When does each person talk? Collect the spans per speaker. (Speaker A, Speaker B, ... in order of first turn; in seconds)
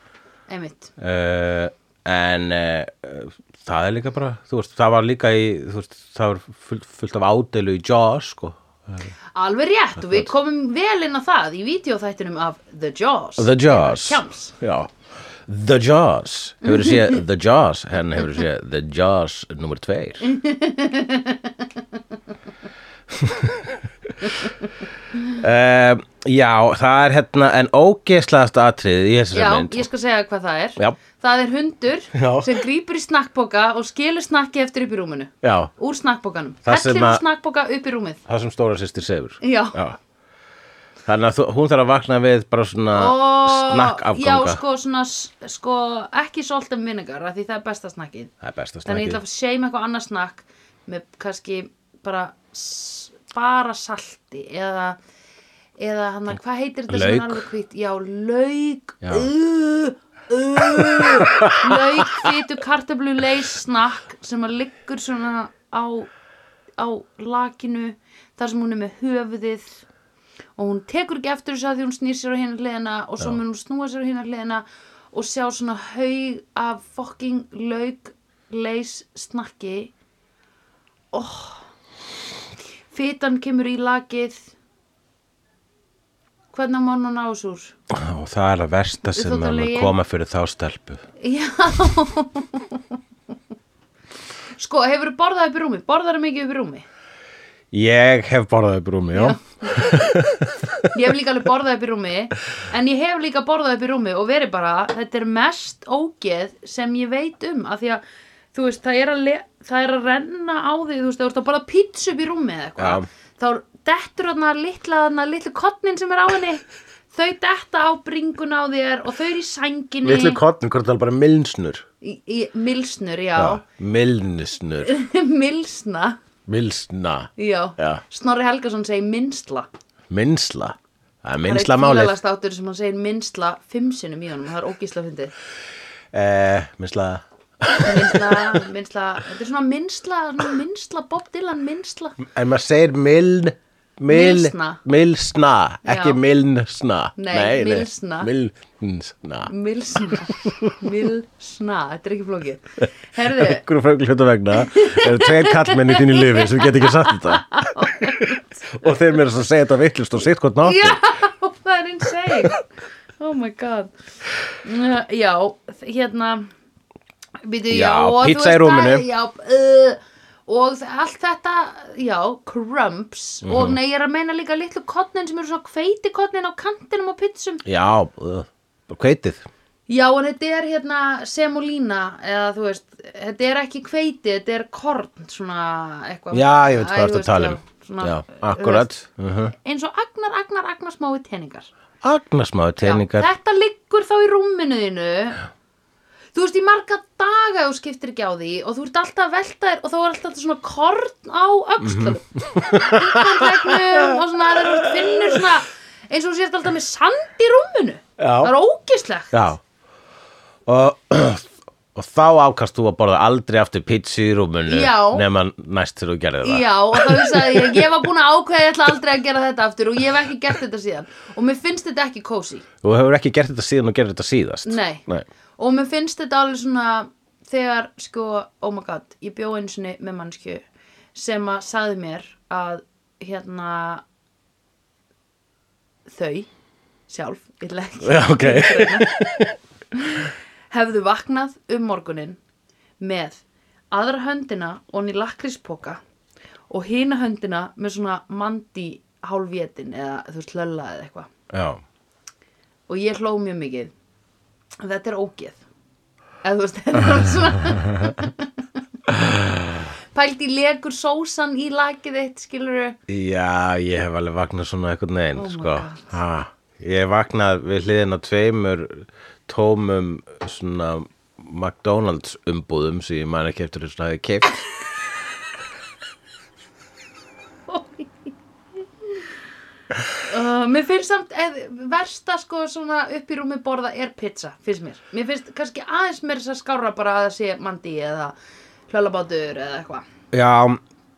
Speaker A: 0.5-0.9, 9.3-14.6, 20.2-21.7, 29.3-38.2, 39.4-39.8, 42.9-48.3, 48.9-55.0, 55.8-66.1, 66.8-69.8, 70.6-79.9, 81.1-81.7, 82.9-84.5, 86.5-87.8, 89.1-89.9, 91.2-92.8, 94.6-96.8, 99.1-100.1, 100.9-108.0, 108.5-120.4, 122.0-123.6, 124.8-126.2, 127.4-129.7, 131.4-135.3, 137.7-142.2, 144.1-144.8, 145.8-146.2, 147.2-148.3, 149.5-153.6, 154.6-158.6, 160.6-162.6, 163.2-163.9, 164.6-166.5, 167.4-177.6, 179.9-188.9, 189.6-191.7, 192.8-195.4, 196.3-209.3, 214.7-215.2, 216.4-222.7, 224.7-225.0, 225.6-230.6, 231.2-234.0, 236.1-236.5, 237.1-239.2, 239.9-242.4, 243.0-246.0, 246.7-251.3, 252.9-253.9, 254.8-255.6, 256.4-258.5, 260.1-263.0, 265.4-266.1, 277.7-278.3, 280.2-288.4, 288.9-290.1
Speaker B: 1.0-9.1, 10.0-10.3, 13.4-14.9, 15.5-20.3, 23.2-23.8, 25.3-29.9, 32.1-32.6, 35.4-35.7, 36.6-37.2, 38.3-40.0, 41.1-44.6, 48.4-49.2, 56.9-57.5, 59.0-59.3, 60.6-62.3, 87.9-91.0, 97.7-100.9, 112.8-113.1, 120.0-121.8, 123.4-124.9, 126.5-128.0, 130.1-132.2, 136.1-138.6, 142.2-150.9, 153.2-161.0, 167.7-169.1, 173.4-173.8, 177.6-179.5, 186.3-189.5, 192.0-193.3, 201.8-205.4, 208.2-208.5, 209.3-209.6, 210.7-217.9, 222.8-225.3, 238.0-239.6, 251.5-251.8, 259.1-259.9, 263.1-274.6, 290.3-290.8